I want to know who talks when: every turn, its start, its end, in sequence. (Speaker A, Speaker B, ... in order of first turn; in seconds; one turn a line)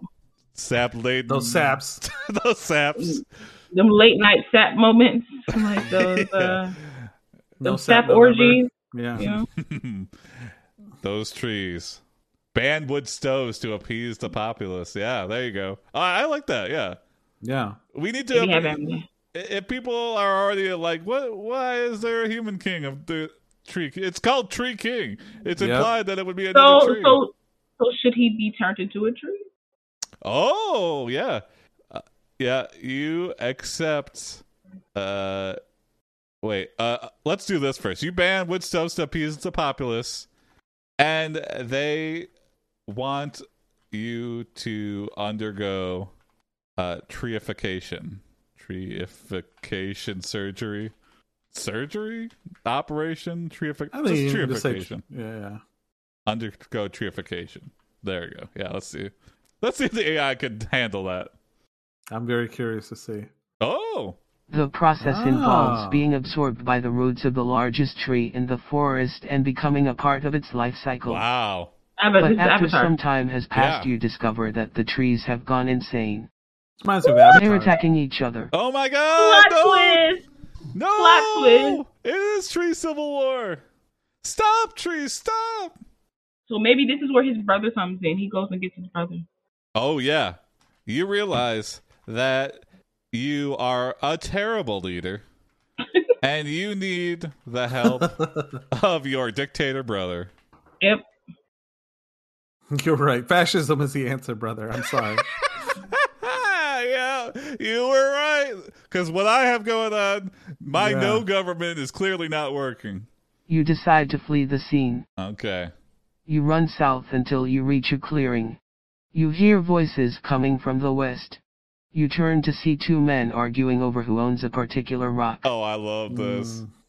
Speaker A: 0.5-3.2
Speaker B: 1.3-2.0
Speaker C: 3.0-6.8
Speaker A: 5.5-6.6
Speaker B: 7.6-9.2
Speaker C: 7.6-9.5
Speaker A: 9.2-10.1
Speaker A: 11.0-12.0
Speaker A: 12.5-17.0
Speaker B: 17.4-17.8
Speaker A: 17.9-18.8
Speaker C: 18.3-19.0
Speaker A: 19.3-27.2
Speaker B: 25.6-25.9
Speaker C: 26.5-29.4
Speaker A: 30.2-34.4
Speaker A: 34.9-35.6
Speaker A: 36.4-40.3
Speaker A: 41.0-42.3
Speaker A: 42.9-46.1
Speaker A: 46.8-50.9
Speaker A: 51.5-55.0
Speaker B: 53.9-55.6
Speaker A: 56.3-61.3
Speaker B: 62.1-63.3
Speaker A: 63.6-64.2
Speaker D: 64.5-71.2
Speaker B: 65.0-66.1
Speaker A: 71.1-71.7
Speaker C: 72.0-72.9
Speaker D: 72.2-76.3
Speaker A: 73.5-73.9
Speaker B: 76.8-77.7
Speaker C: 77.0-77.4
Speaker D: 77.3-78.5
Speaker A: 78.5-80.0
Speaker C: 79.1-80.2
Speaker A: 80.7-83.6
Speaker C: 80.9-81.8
Speaker A: 84.2-85.7
Speaker C: 86.5-89.2
Speaker A: 89.7-95.2
Speaker A: 96.2-98.2
Speaker B: 97.8-98.6
Speaker A: 98.7-100.3
Speaker B: 102.7-105.2
Speaker A: 105.6-113.1
Speaker B: 110.7-111.2
Speaker D: 113.5-115.0
Speaker A: 115.2-115.7
Speaker D: 116.3-118.6
Speaker D: 119.1-121.4
Speaker D: 121.9-125.4
Speaker A: 125.4-126.6
Speaker B: 126.1-126.7